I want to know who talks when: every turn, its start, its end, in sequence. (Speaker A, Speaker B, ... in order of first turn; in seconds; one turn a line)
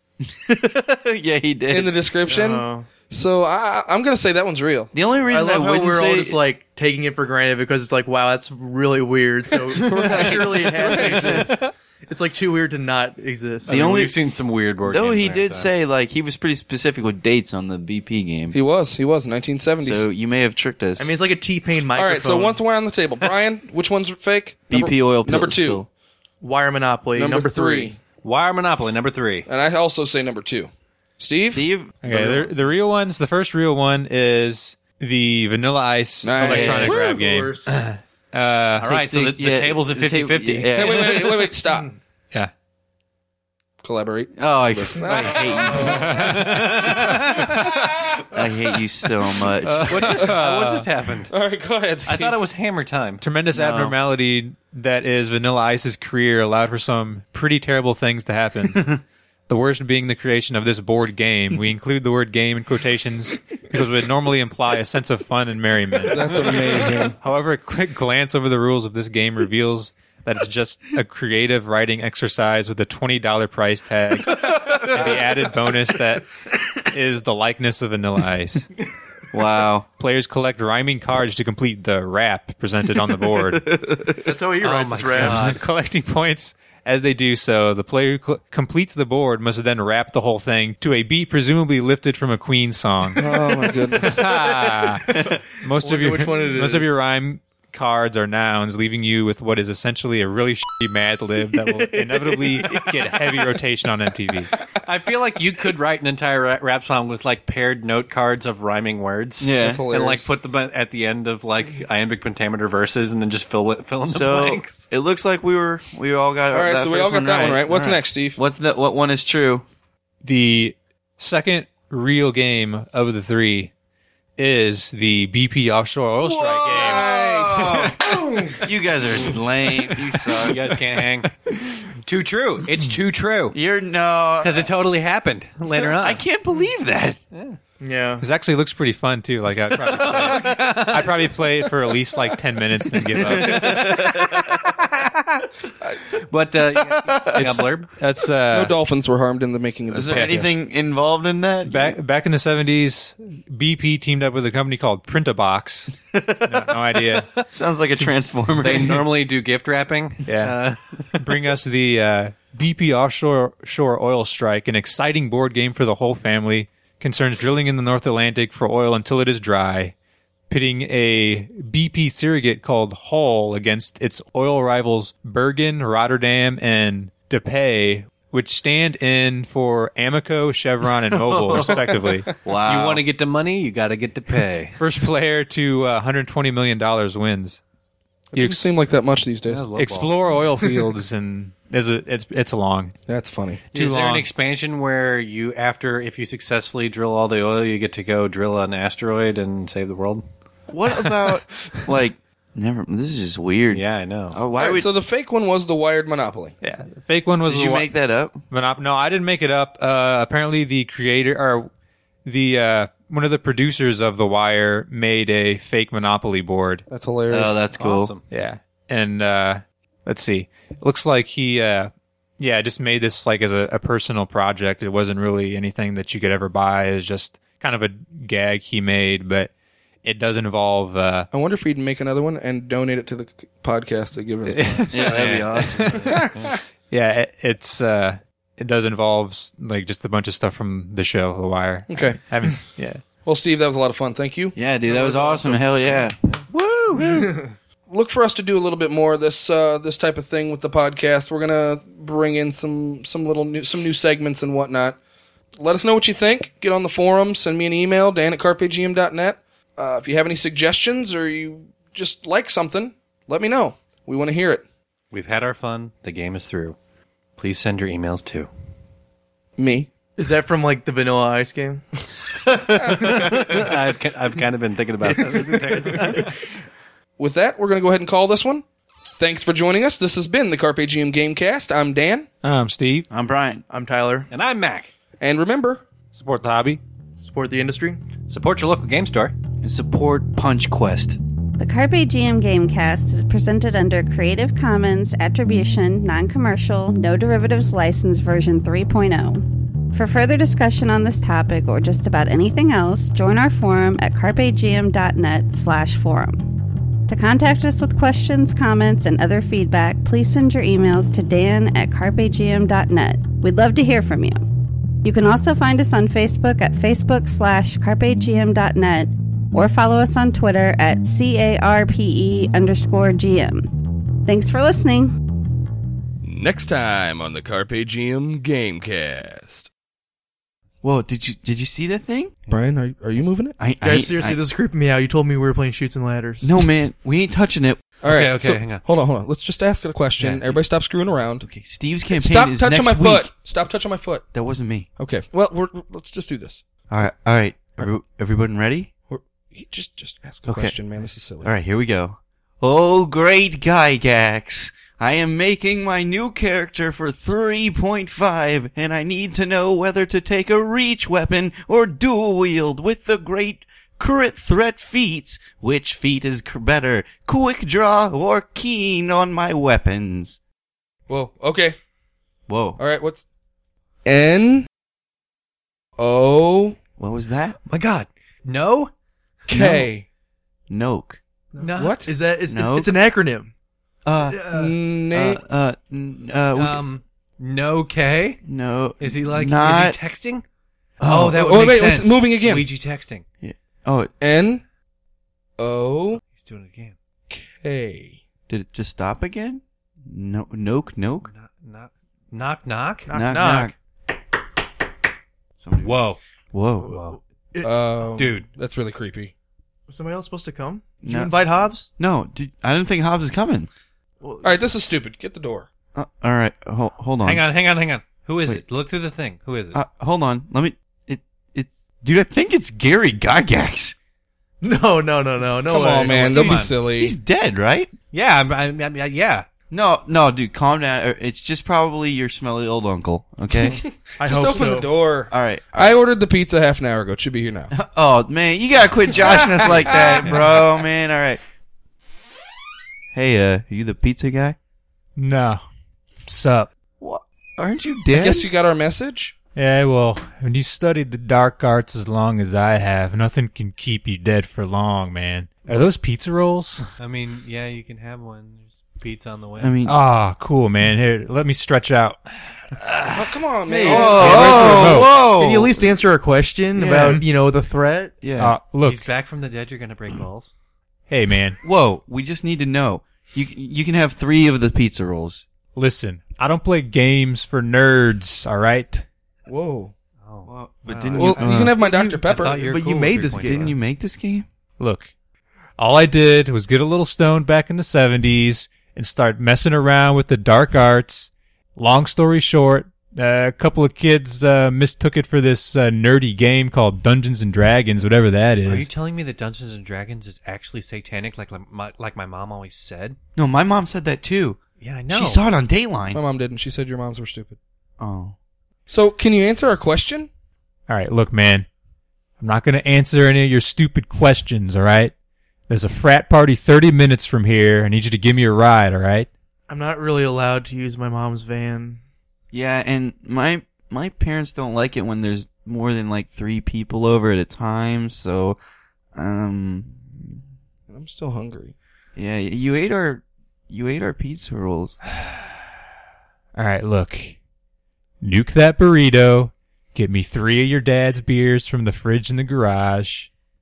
Speaker A: 0.2-2.0
Speaker B: 1.7-4.9
Speaker C: 2.3-2.9
Speaker A: 4.9-6.4
Speaker C: 5.3-13.8
Speaker B: 9.8-11.7
Speaker A: 13.7-14.2
Speaker D: 13.7-15.7
Speaker A: 14.8-18.6
Speaker B: 18.5-20.1
Speaker A: 19.8-21.2
Speaker C: 20.9-22.6
Speaker B: 21.9-25.8
Speaker A: 24.7-25.9
Speaker C: 26.4-27.9
Speaker B: 27.1-27.9
Speaker D: 28.2-29.5
Speaker B: 29.5-30.7
Speaker B: 31.2-31.6
Speaker A: 31.5-32.6
Speaker E: 32.0-38.9
Speaker B: 36.2-37.0
Speaker C: 36.4-37.8
Speaker A: 36.5-37.1
Speaker A: 38.8-41.2
Speaker D: 38.8-40.9
Speaker B: 40.7-41.9
Speaker B: 43.8-46.0
Speaker A: 44.4-46.1
Speaker D: 45.1-47.7
Speaker E: 45.9-47.2
Speaker B: 47.5-48.2
Speaker A: 48.3-50.0
Speaker E: 49.6-50.9
Speaker D: 49.9-51.3
Speaker B: 51.3-52.4
Speaker D: 52.0-53.2
Speaker E: 53.2-66.6
Speaker A: 53.5-54.0
Speaker B: 66.1-67.2
Speaker E: 67.2-76.3
Speaker A: 74.9-75.2
Speaker E: 76.9-78.7
Speaker A: 79.3-79.9
Speaker E: 80.0-83.8
Speaker A: 83.3-84.2
Speaker C: 84.2-85.6
Speaker D: 84.6-85.6
Speaker E: 85.0-93.3
Speaker B: 93.2-94.2
Speaker E: 94.0-104.5
Speaker A: 95.0-95.4
Speaker C: 95.8-97.0
Speaker A: 101.7-103.1
Speaker D: 104.8-114.9
Speaker A: 109.4-109.8
Speaker B: 109.6-110.3
Speaker A: 114.0-119.6
Speaker B: 116.5-118.4
Speaker E: 120.2-123.7
Speaker E: 124.4-127.2
Speaker A: 126.2-130.7
Speaker B: 126.8-127.9
Speaker D: 130.3-131.3
Speaker A: 131.5-131.8
Speaker D: 132.0-133.6
Speaker A: 133.5-134.7
Speaker D: 134.4-136.2
Speaker A: 135.8-137.2
Speaker D: 137.3-137.6
Speaker C: 137.8-138.2
Speaker E: 138.2-143.9
Speaker D: 139.7-144.6
Speaker A: 143.3-144.7
Speaker D: 146.3-147.9
Speaker A: 147.0-147.7
Speaker E: 147.4-148.8
Speaker B: 148.5-150.4
Speaker A: 149.9-152.0
Speaker E: 150.1-150.5
Speaker E: 151.7-155.9
Speaker A: 155.9-159.1
Speaker E: 156.4-157.3
Speaker D: 158.6-161.5
Speaker E: 160.2-160.6
Speaker E: 161.2-169.9
Speaker E: 170.5-182.3
Speaker A: 181.1-181.8
Speaker B: 181.6-182.3
Speaker A: 182.4-183.0
Speaker D: 182.7-184.8
Speaker E: 184.8-187.6
Speaker B: 188.3-189.7
Speaker E: 188.3-188.7
Speaker D: 189.5-190.2
Speaker E: 189.8-192.9
Speaker B: 193.1-193.6
Speaker E: 193.7-194.3
Speaker D: 193.7-200.2
Speaker A: 200.7-204.9
Speaker D: 203.7-204.4
Speaker B: 204.6-206.5
Speaker E: 206.6-207.9
Speaker A: 207.5-208.4
Speaker E: 208.5-211.7
Speaker E: 212.2-216.8
Speaker B: 216.9-217.6
Speaker A: 217.3-218.1
Speaker D: 217.8-218.2
Speaker E: 218.3-229.5
Speaker E: 230.0-231.3
Speaker B: 231.3-234.9
Speaker E: 234.5-235.2
Speaker D: 234.9-236.6
Speaker A: 234.9-236.1
Speaker E: 235.8-236.3
Speaker B: 236.1-236.5
Speaker E: 236.9-243.0
Speaker B: 241.9-242.2
Speaker B: 243.2-245.6
Speaker A: 244.5-247.3
Speaker C: 247.0-247.5
Speaker B: 247.9-255.0
Speaker B: 255.6-264.6
Speaker D: 265.1-266.8
Speaker D: 267.4-268.5
Speaker B: 269.6-269.9
Speaker C: 270.2-271.9
Speaker C: 272.5-273.7
Speaker D: 272.9-276.4
Speaker C: 275.1-276.3
Speaker B: 277.2-278.6
Speaker B: 279.2-282.3
Speaker E: 282.4-283.1
Speaker A: 283.1-283.6
Speaker C: 283.7-284.3
Speaker D: 284.3-284.9
Speaker B: 285.2-285.8
Speaker E: 286.1-286.8
Speaker C: 287.2-288.0
Speaker D: 288.3-289.3
Speaker A: 289.6-291.2
Speaker F: 291.6-314.4
Speaker F: 315.0-323.7
Speaker F: 324.2-325.1
Speaker G: 326.2-329.7
Speaker A: 330.8-332.3
Speaker B: 332.5-333.6
Speaker A: 333.6-334.4
Speaker C: 333.8-336.7
Speaker A: 336.4-337.8
Speaker B: 338.0-341.5
Speaker D: 338.0-338.8
Speaker D: 340.2-340.6
Speaker A: 341.4-343.3
Speaker B: 342.1-344.3
Speaker A: 344.3-344.9
Speaker B: 345.0-346.6
Speaker A: 346.9-348.9
Speaker B: 349.1-351.5
Speaker A: 350.5-350.7
Speaker A: 351.4-370.4
Speaker B: 371.1-371.8
Speaker A: 372.5-372.8
Speaker B: 372.8-373.2
Speaker B: 374.0-374.7
Speaker B: 376.0-376.8
Speaker A: 377.0-377.6
Speaker D: 377.7-378.9
Speaker B: 379.5-380.1
Speaker A: 379.5-379.9
Speaker A: 380.7-381.2
Speaker C: 381.5-383.5
Speaker D: 381.6-382.0
Speaker B: 381.8-382.1
Speaker A: 382.5-382.9
Speaker A: 384.0-384.6
Speaker C: 384.2-384.7
Speaker B: 384.5-385.4
Speaker A: 385.1-386.8
Speaker D: 386.5-388.4
Speaker A: 388.4-390.0
Speaker D: 389.0-390.4
Speaker C: 391.0-391.4
Speaker D: 391.0-393.2
Speaker B: 391.3-392.6
Speaker A: 393.4-394.1
Speaker B: 394.2-394.6
Speaker B: 395.6-396.2
Speaker D: 396.2-396.9
Speaker B: 397.3-398.2
Speaker A: 398.5-401.3
Speaker D: 401.2-403.1
Speaker C: 403.1-403.7
Speaker A: 403.1-403.7
Speaker A: 405.6-406.0
Speaker D: 405.8-406.2
Speaker A: 406.5-407.0
Speaker C: 406.8-407.8
Speaker D: 406.9-407.2
Speaker B: 407.6-409.3
Speaker D: 408.1-408.4
Speaker C: 409.9-411.9
Speaker A: 411.0-413.7
Speaker C: 414.2-414.6
Speaker B: 414.4-415.7
Speaker A: 415.9-417.4
Speaker D: 417.2-419.8
Speaker A: 419.7-423.9
Speaker C: 424.6-426.6
Speaker B: 425.6-427.1
Speaker D: 426.1-426.7
Speaker A: 426.9-427.9
Speaker D: 428.1-429.5
Speaker A: 429.7-433.8
Speaker B: 433.7-437.7
Speaker C: 434.2-434.9
Speaker A: 435.3-436.0
Speaker A: 437.7-441.4
Speaker B: 439.2-440.3
Speaker A: 443.1-444.6
Speaker E: 445.1-445.6
Speaker E: 446.2-446.7
Speaker A: 447.0-448.5
Speaker B: 448.1-449.4
Speaker E: 449.5-456.8
Speaker D: 457.0-459.8
Speaker A: 459.6-460.0
Speaker E: 459.9-462.2
Speaker B: 463.1-465.0
Speaker A: 463.7-465.9
Speaker C: 463.7-468.2
Speaker E: 464.1-465.1
Speaker E: 466.8-467.2
Speaker A: 468.2-468.6
Speaker E: 468.4-469.1
Speaker D: 468.8-470.5
Speaker E: 471.1-471.6
Speaker A: 471.6-475.4
Speaker E: 475.7-479.1
Speaker B: 479.5-479.9
Speaker D: 480.2-481.7
Speaker A: 480.4-481.8
Speaker B: 481.2-482.5
Speaker C: 481.4-483.7
Speaker D: 482.2-483.8
Speaker A: 483.3-484.4
Speaker E: 484.8-485.1
Speaker E: 485.8-498.9
Speaker D: 498.6-503.2
Speaker A: 503.4-504.6
Speaker D: 504.8-505.4
Speaker A: 505.1-506.2
Speaker B: 506.1-507.6
Speaker A: 508.0-508.4
Speaker B: 508.9-510.3
Speaker E: 510.9-511.7
Speaker E: 512.4-515.1
Speaker E: 515.7-519.3
Speaker C: 519.7-522.0
Speaker A: 522.5-528.6
Speaker A: 529.1-530.4
Speaker B: 530.9-531.7
Speaker A: 532.1-535.0
Speaker E: 536.5-537.4
Speaker E: 538.2-543.3